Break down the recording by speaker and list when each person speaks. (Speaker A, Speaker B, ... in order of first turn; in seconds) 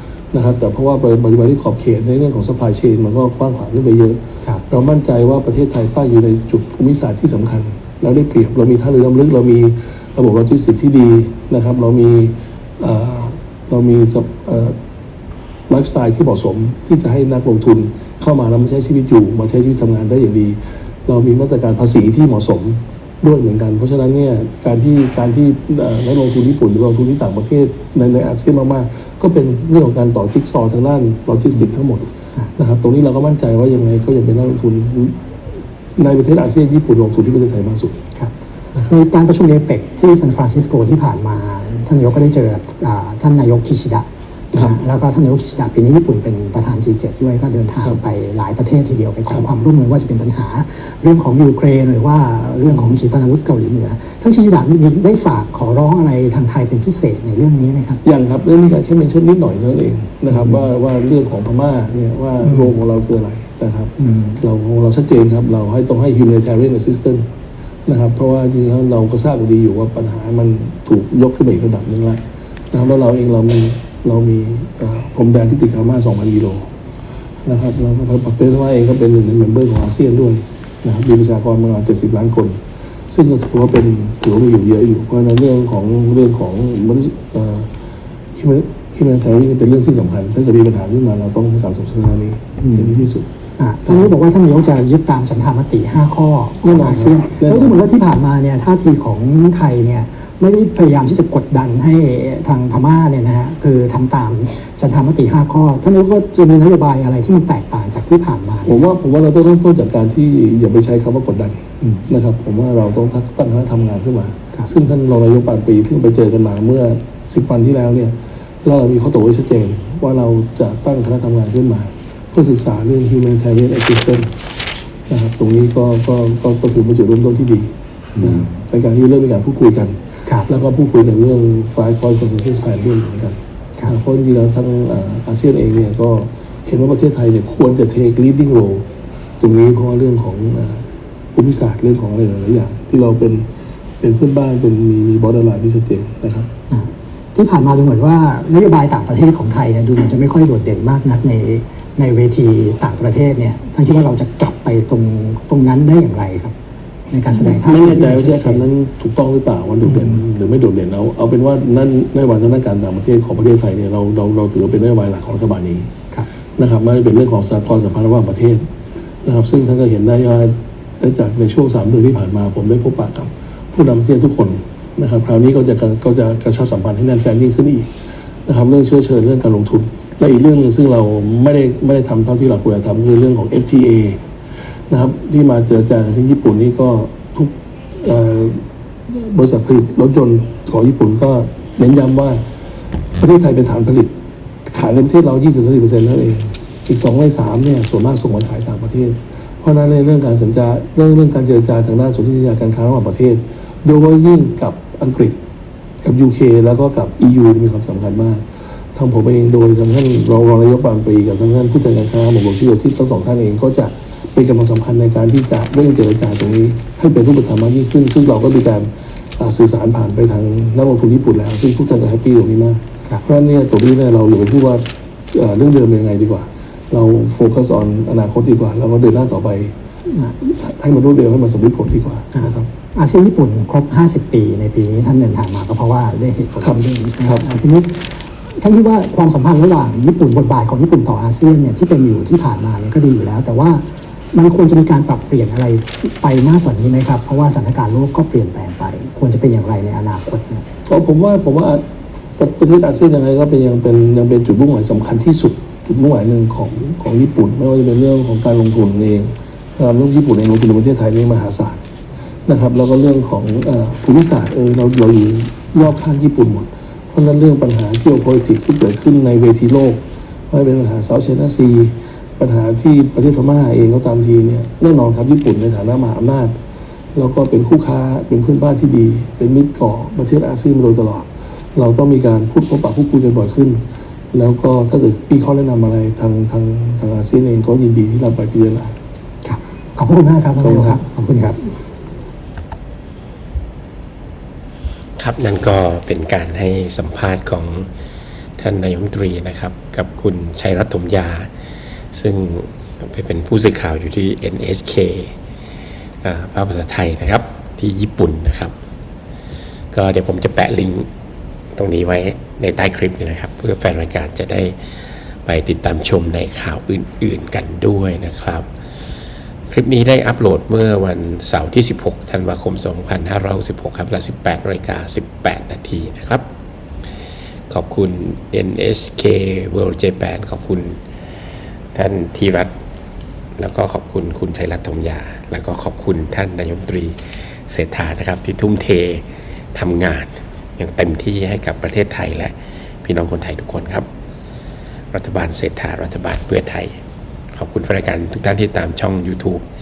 Speaker A: 0.3-14.8, 15.7-35.2, 36.0-38.0, 52.7-53.0, 58.0-67.3, 67.9-76.7, 77.4-87.7, 88.3-93.3, 93.9-94.1, 96.6-97.8, 108.7-124.3, 125.1-138.9, 139.4-143.5, 144.0-146.5, 157.3-165.9, 166.6-168.7, 169.2-177.9, 178.5-184.2, 184.9-192.4, 193.2-194.1, 194.7-205.4, 206.0-229.7, 230.4-232.7, 236.6-237.5, 250.9-251.8, 252.4-261.8, 262.5-276.6, 277.1-283.8, 284.3-289.0, 290.6-291.0
Speaker B: 38.1-58.0, 60.3-60.6, 62.4-62.8, 64.0-64.4, 92.6-93.0, 93.6-108.8, 128.2-128.5, 146.7-156.5, 157.1-158.7, 159.8-160.2, 232.3-250.7, 289.4-291.7
Speaker C: 295.2-297.9, 298.6-301.5, 302.1-305.3, 306.2-308.7, 309.9-311.1, 311.8-314.8, 315.4-318.6, 319.7-326.5, 327.7-331.0, 331.9-332.7, 333.6-337.2, 337.7-344.1, 345.1-346.9, 347.5-349.6